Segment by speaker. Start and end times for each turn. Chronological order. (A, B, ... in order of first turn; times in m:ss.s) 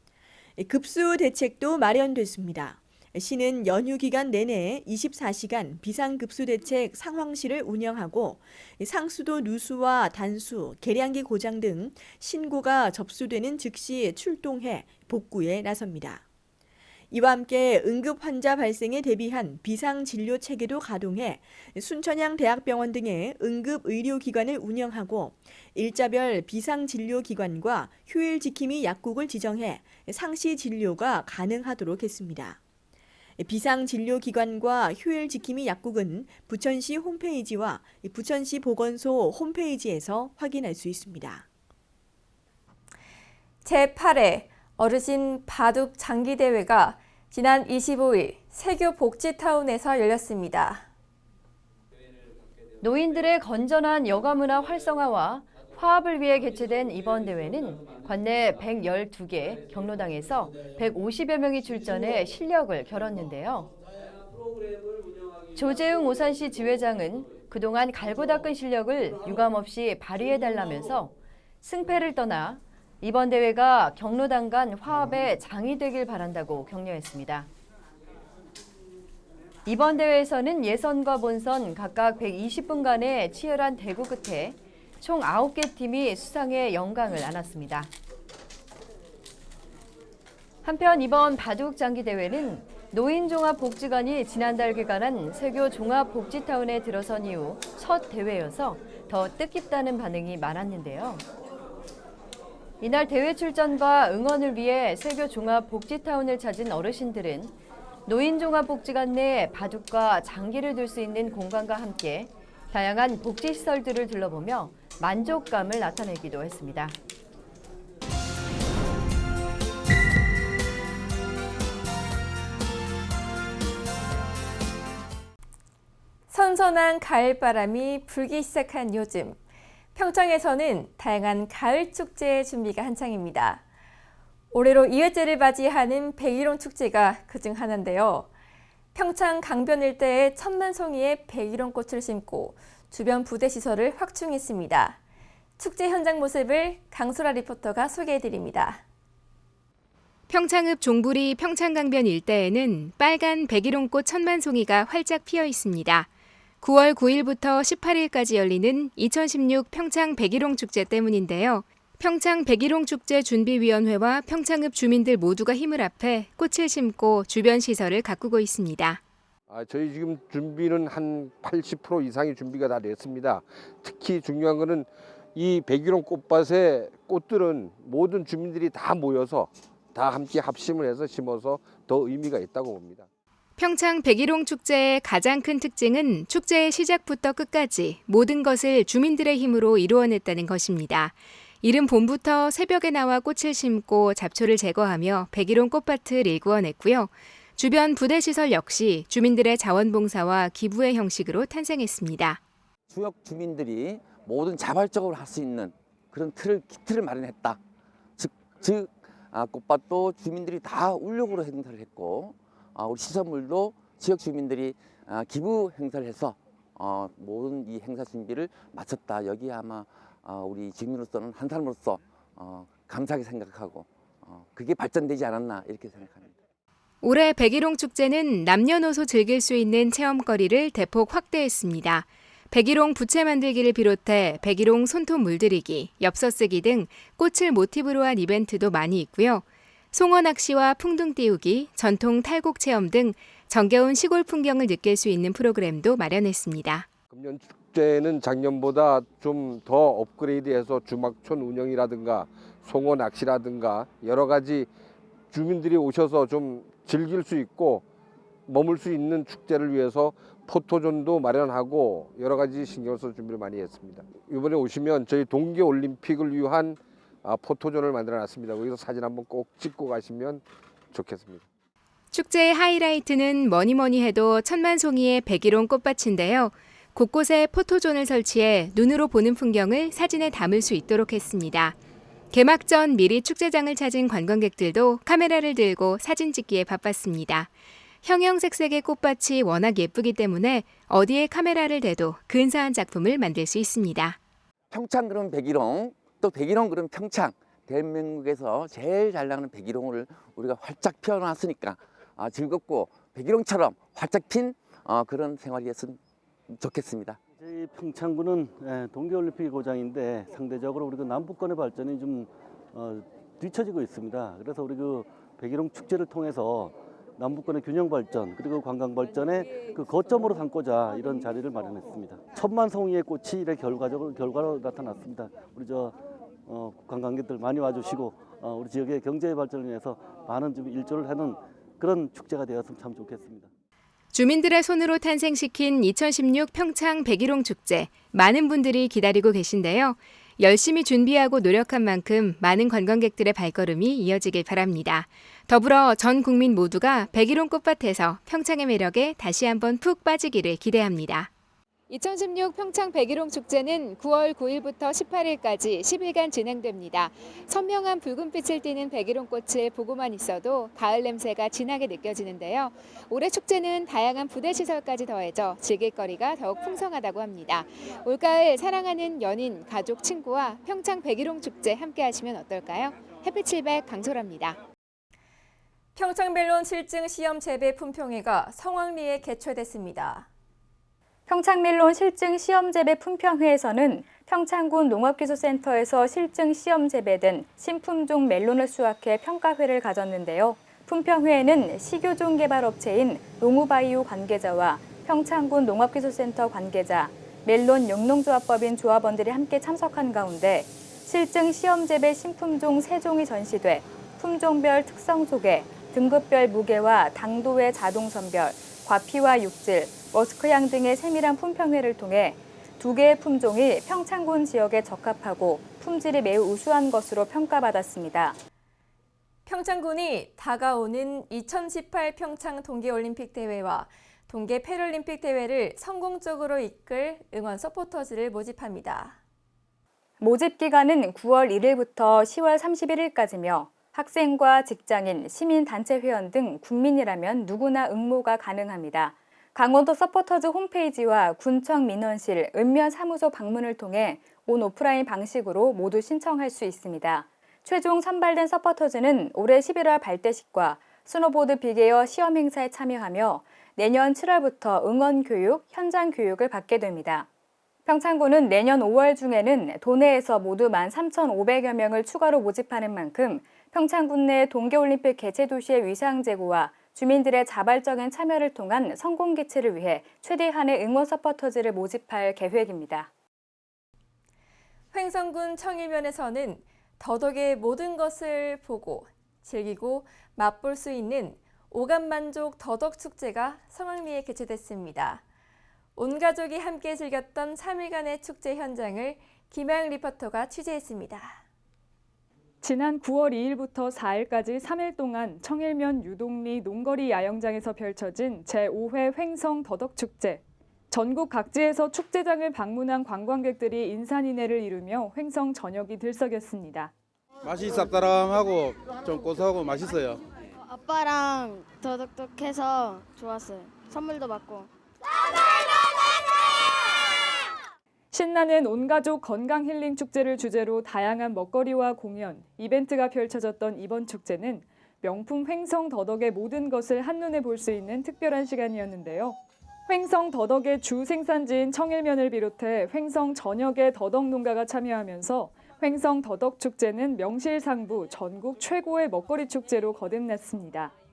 0:00.6-0:16.2 A
0:17.1-0:32.6 A
0:33.4-0:41.4 A
0:43.6-0:50.8 B
0:52.8-1:03.7 C
1:05.5-1:17.5 C
1:19.6-1:27.9 C
1:30.6-1:41.2 C
1:42.8-1:56.9 C
2:06.3-2:09.4 B
2:09.9-2:13.6 B
2:14.5-2:18.3 B
2:18.9-2:25.0 B
2:25.6-2:28.8 B
2:30.3-2:36.1 D
2:36.6-2:49.0 D
2:49.5-3:03.1 E
3:03.6-3:22.4 D
3:22.9-3:27.6 F
3:28.2-3:46.4 F
3:47.0-4:06.9 D
4:07.1-4:14.7 E
4:15.3-4:17.8 E
4:18.5-4:31.5 E
4:32.1-4:41.8 D
4:42.3-4:47.5 D
4:48.0-4:54.2 D
4:54.7-5:06.0 F
5:06.5-5:07.2 F
5:07.4-5:33.5 G
5:34.1-5:51.3 D
5:51.9-6:14.6 H
6:15.9-6:20.3 B
6:21.3-6:58.4 I
6:59.4-7:09.2 B
7:10.2-7:37.3 I
7:37.8-7:53.1 I
7:54.9-8:05.2 B
8:06.0-8:11.4 B
8:12.6-8:26.9 J
8:27.4-8:30.2 K
8:30.6-8:34.7 L
8:35.6-8:35.9 L
8:38.1-9:00.9 J